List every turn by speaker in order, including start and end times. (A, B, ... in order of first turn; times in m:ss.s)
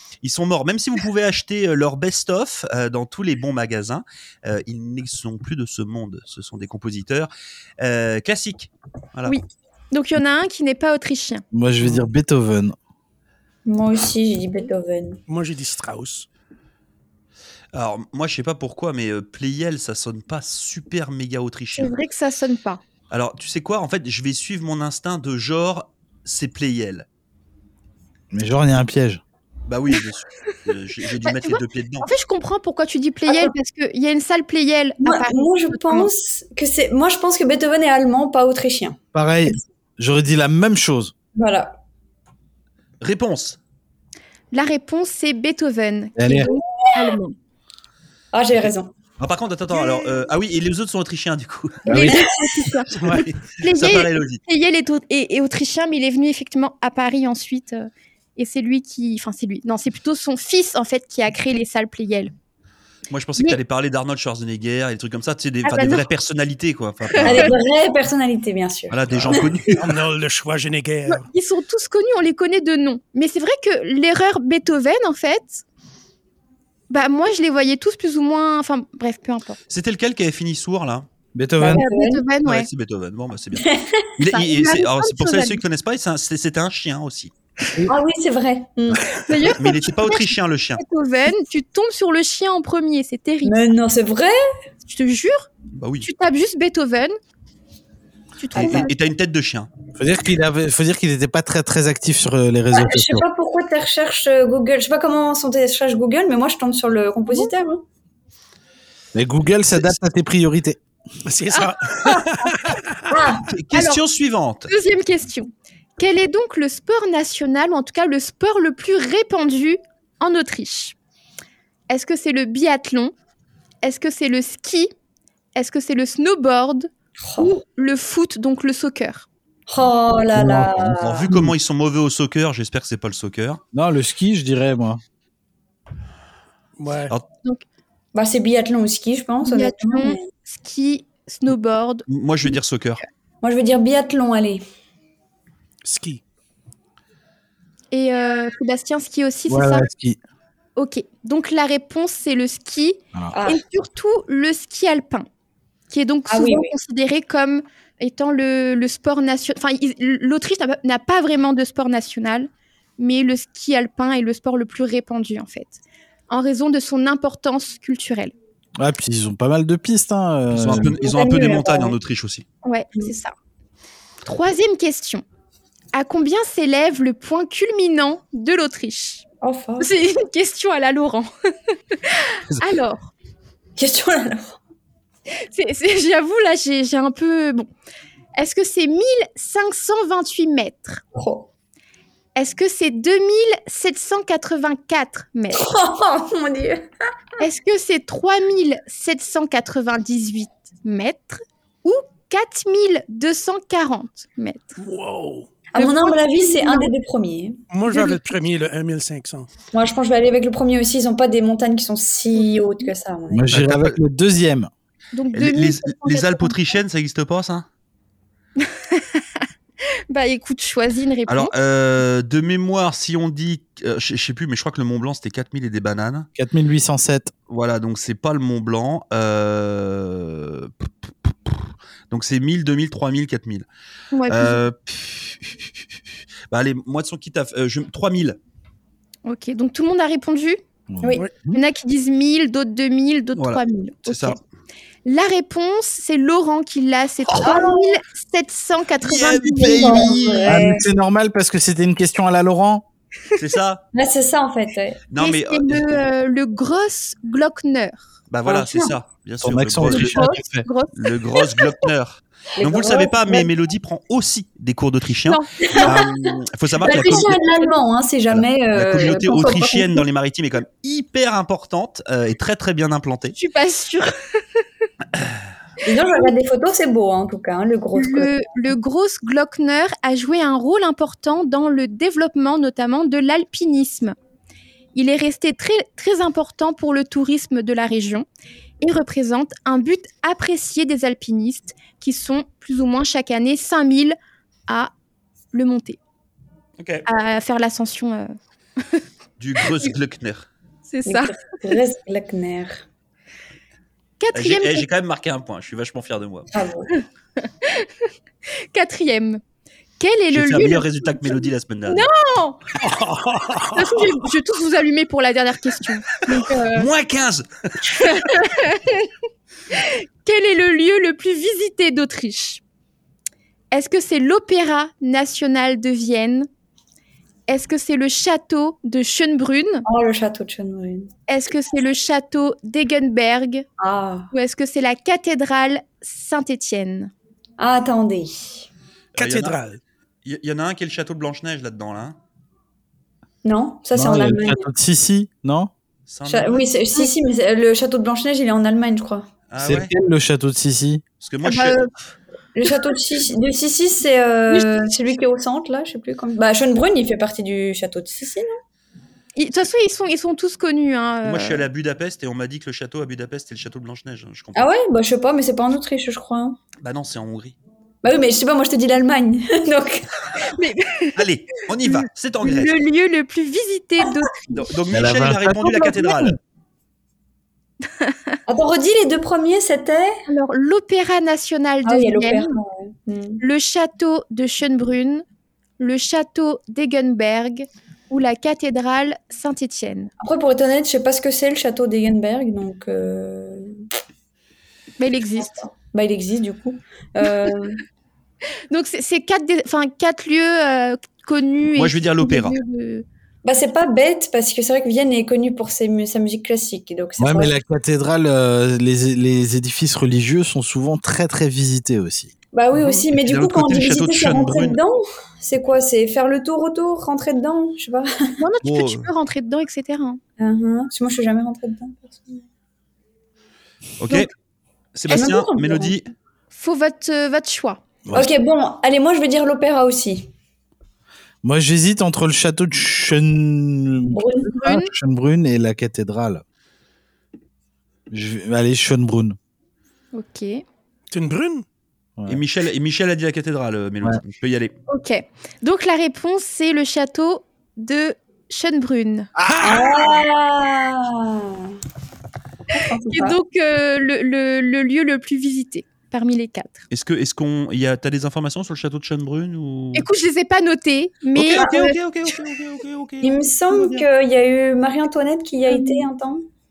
0:00.2-0:09.4 A
0:09.3-0:11.4 B
0:11.5-0:12.8 C
0:13.6-0:15.2 D
0:15.3-0:16.3 E
0:17.7-0:21.9 A
0:21.8-0:22.8 B
0:23.1-0:27.0 A
0:28.3-0:29.2 C
0:29.7-0:32.1 A
0:31.2-0:36.1 B
0:33.3-0:33.5 D
0:35.0-0:39.6 D
0:39.1-0:41.1 C
0:41.3-0:41.8 D
0:43.0-0:43.6 A
0:44.5-0:47.3 B
0:46.2-0:46.5 C
0:48.3-0:48.9 D
0:48.5-0:51.8 A
0:51.8-1:02.3 B
0:51.9-0:52.3 C
0:51.9-0:52.7 D
0:53.0-0:53.2 E
0:53.0-0:54.4 A
1:03.1-1:07.6 A
1:05.6-1:06.0 B
1:07.0-1:07.5 B
1:07.2-1:09.8 D
1:08.9-1:09.9 A
1:09.1-1:11.3 E
1:11.1-1:15.6 B
1:16.9-1:19.6 B
1:19.7-1:21.1 A
1:21.3-1:21.8 C
1:21.6-1:22.2 D
1:21.7-1:22.7 B
1:22.4-1:27.3 A
1:23.6-1:24.0 D
1:24.2-1:25.6 B
1:27.8-1:29.0 D
1:29.2-1:33.6 B
1:29.5-1:30.8 A
1:33.4-1:34.3 D
1:34.8-1:35.5 B
1:35.7-1:36.1 A
1:36.0-1:37.2 B
1:38.4-1:38.9 B
1:38.5-1:39.7 A
1:38.5-1:38.9 D
1:40.0-1:43.2 C
1:42.7-1:47.8 D
1:49.1-1:50.8 C
1:51.2-1:53.1 E
1:51.5-1:52.5 B
1:53.1-1:53.5 D
1:53.5-1:54.7 A
1:53.7-1:54.0 B
1:54.7-2:01.0 B
2:01.9-2:03.1 B
2:03.8-2:04.9 B
2:05.5-2:09.3 B
2:07.2-2:07.5 D
2:09.7-2:11.3 D
2:10.3-2:11.5 C
2:11.0-2:13.6 A
2:13.7-2:15.0 C
2:16.8-2:17.1 E
2:18.1-2:20.3 D
2:19.4-2:22.0 B
2:22.1-2:23.0 A
2:23.4-2:24.6 D
2:25.8-2:26.2 E
2:27.9-2:29.9 B
2:29.5-2:30.2 C
2:30.8-2:35.3 B
2:33.3-2:33.6 D
2:35.9-2:45.8 B
2:36.3-2:36.7 D
2:46.3-2:48.3 B
2:48.8-2:51.0 C
2:50.5-2:52.4 A
2:50.9-2:52.0 D
2:52.6-2:53.3 B
2:54.2-2:55.2 B
2:55.9-2:59.2 B
2:59.4-2:59.9 D
2:59.8-3:01.3 B
3:01.9-3:03.1 B
3:03.8-3:04.6 D
3:05.4-3:07.7 B
3:08.3-3:11.0 B
3:11.2-3:11.5 D
3:12.4-3:15.6 B
3:15.5-3:16.9 D
3:17.4-3:24.8 B
3:24.8-3:25.5 E
3:25.7-3:27.6 D
3:25.7-3:26.9 B
3:27.7-3:29.5 E
3:27.9-3:28.2 B
3:29.7-3:33.5 D
3:33.3-3:34.7 C
3:33.5-3:34.0 A
3:35.1-3:36.6 B
3:35.3-3:37.7 A
3:38.6-3:39.4 B
3:40.1-3:41.5 B
3:41.3-3:46.3 A
3:46.3-3:47.3 C
3:47.5-3:53.7 A
3:54.1-3:54.7 B
3:54.3-3:55.7 A
3:56.5-3:58.4 A
3:59.2-4:00.6 B
4:00.9-4:01.6 C
4:01.5-4:04.4 B
4:03.4-4:04.4 A
4:05.0-4:10.4 B
4:07.4-4:08.0 D
4:09.0-4:10.6 A
4:09.5-4:10.9 D
4:10.4-4:12.8 C
4:13.4-4:13.8 A
4:13.9-4:15.0 D
4:15.1-4:16.0 A
4:15.2-4:18.9 B
4:18.3-4:20.2 A
4:18.4-4:18.8 D
4:19.4-4:20.7 C
4:19.8-4:21.8 B
4:20.9-4:27.4 A
4:22.6-4:23.5 D
4:25.3-4:26.0 B
4:25.6-4:30.0 D
4:26.8-4:27.8 B
4:28.3-4:33.4 A
4:33.3-4:34.6 B
4:35.8-4:38.3 D
4:37.9-4:44.2 B
4:44.9-4:48.2 B
4:48.8-4:54.2 B
4:55.5-4:56.0 B
4:56.8-4:57.0 A
4:57.0-4:58.3 B
4:59.4-5:00.5 A
5:00.9-5:01.4 B
5:01.0-5:02.8 D
5:04.2-5:04.9 B
5:04.3-5:06.5 A
5:06.5-5:06.9 D
5:07.4-5:08.0 B
5:08.7-5:09.4 B
5:10.0-5:12.6 B
5:10.3-5:12.1 A
5:12.8-5:14.1 E
5:13.7-5:16.9 B
5:16.7-5:18.2 A
5:17.9-5:19.1 B
5:19.7-5:22.6 B
5:23.7-5:26.5 B
5:27.5-5:29.8 B
5:29.8-5:31.1 D
5:31.3-5:33.6 B
5:33.8-5:34.3 D
5:34.3-5:37.1 B
5:37.6-5:38.7 D
5:39.2-5:39.6 A
5:39.2-5:39.8 E
5:40.2-5:42.2 A
5:43.4-5:44.6 D
5:43.9-5:45.7 C
5:46.1-5:46.6 A
5:46.2-5:49.3 D
5:49.5-5:49.9 A
5:49.6-5:51.0 C
5:51.2-5:51.8 A
5:51.4-5:51.9 B
5:52.5-5:58.6 D
5:59.4-6:01.6 B
6:01.2-6:04.7 A
6:04.5-6:06.6 D
6:06.8-6:07.6 A
6:08.0-6:10.1 D
6:10.4-6:11.2 B
6:11.1-6:12.8 A
6:11.8-6:14.7 B
6:14.5-6:16.4 A
6:14.9-6:16.4 C
6:18.0-6:18.4 B
6:18.5-6:20.2 D
6:20.3-6:22.5 B
6:21.8-6:23.4 D
6:23.4-6:25.2 B
6:25.8-6:30.1 B
6:30.2-6:33.8 D
6:35.0-6:35.6 B
6:35.4-6:37.8 D
6:38.7-6:43.0 B
6:41.7-6:42.6 A
6:43.4-6:47.6 D
6:47.2-6:52.3 C
6:52.5-6:58.4 D
6:53.1-6:54.8 A
6:58.4-7:00.2 B
6:58.6-6:59.1 A
7:00.4-7:02.4 D
7:04.0-7:04.3 A
7:04.9-7:06.1 A
7:05.1-7:06.0 D
7:06.5-7:07.8 B
7:08.0-7:08.3 C
7:08.1-7:10.3 D
7:11.4-7:16.4 C
7:14.1-7:14.5 D
7:14.5-7:14.9 B
7:18.1-7:19.4 C
7:20.1-7:20.6 B
7:21.1-7:21.6 E
7:22.3-7:24.7 A
7:24.9-7:29.3 B
7:29.4-7:30.1 E
7:29.6-7:31.8 D
7:32.7-7:33.4 D
7:33.1-7:36.8 B
7:36.9-7:40.1 A
7:39.9-7:42.0 B
7:41.3-7:44.0 A
7:43.2-7:46.4 D
7:45.7-7:46.1 B